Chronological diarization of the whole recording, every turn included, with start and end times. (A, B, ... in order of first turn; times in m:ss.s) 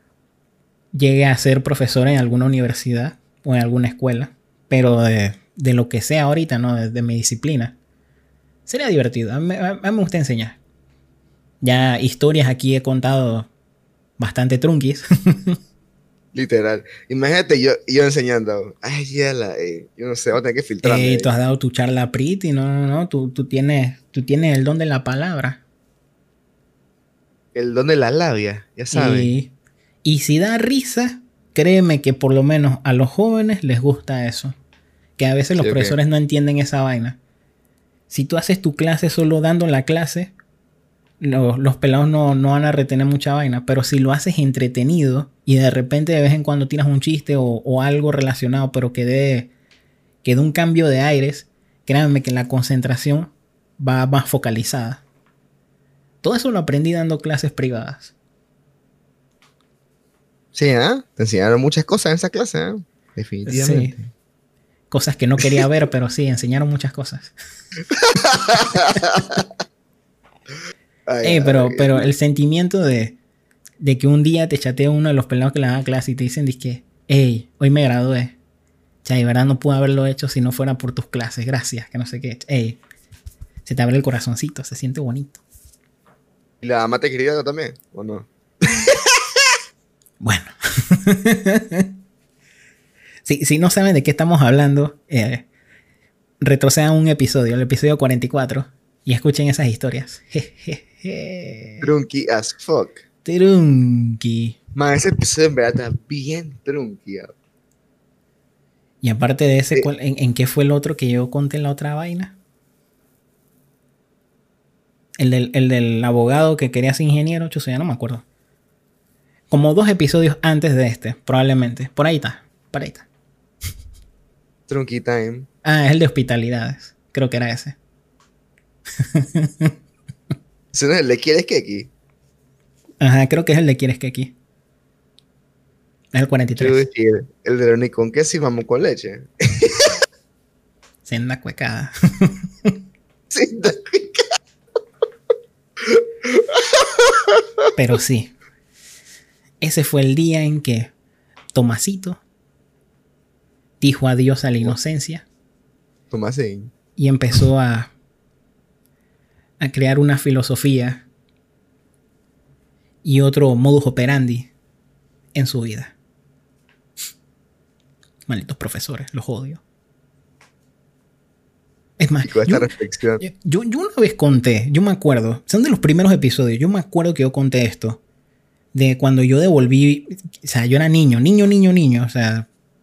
0:00.9-0:07.8 A
0:08.7-0:10.6 A
0:11.6-0:13.5 A
0:14.2-0:15.6 A
0:16.3-0:21.3 B
0:20.8-0:25.6 A
0:27.6-0:29.3 B
0:28.9-0:29.5 A
0:30.0-0:34.6 A
0:35.2-0:37.2 A
0:35.6-0:36.0 B
0:38.1-0:40.3 A
0:41.2-0:49.5 A
0:50.2-0:55.0 A
0:56.2-0:58.1 A
1:00.5-1:04.0 B
1:03.5-1:04.0 A
1:04.9-1:07.3 A
1:07.9-1:09.5 B
1:11.1-1:12.1 B
1:11.2-1:13.2 A
1:13.8-1:18.4 A
1:19.0-1:22.8 A
1:23.6-1:25.4 A
1:26.6-1:29.4 B
1:30.2-1:31.9 A
1:33.3-1:35.5 A
1:36.4-1:41.9 A
1:41.8-1:43.0 B
1:43.2-1:44.6 A
1:44.8-1:47.3 B
1:49.0-1:52.4 A
1:55.2-1:58.2 A
1:59.5-2:03.1 A
2:04.7-2:05.5 B
2:05.6-2:07.8 A
2:09.0-2:09.7 A
2:10.7-2:11.9 B
2:13.0-2:14.3 A
2:16.1-2:16.8 A
2:16.6-2:20.0 B
2:21.0-2:22.7 A
2:23.3-2:24.3 B
2:25.8-2:27.4 B
2:27.8-2:28.3 A
2:29.6-2:30.9 A
2:31.5-2:32.2 A
2:33.8-2:35.3 A
2:36.1-2:36.7 B
2:37.0-2:37.9 A
2:39.6-2:41.0 A
2:43.0-2:44.5 A
2:45.3-2:45.9 A
2:48.3-2:49.6 A
2:52.0-2:58.0 A
2:52.2-2:53.2 B
2:58.7-3:02.5 A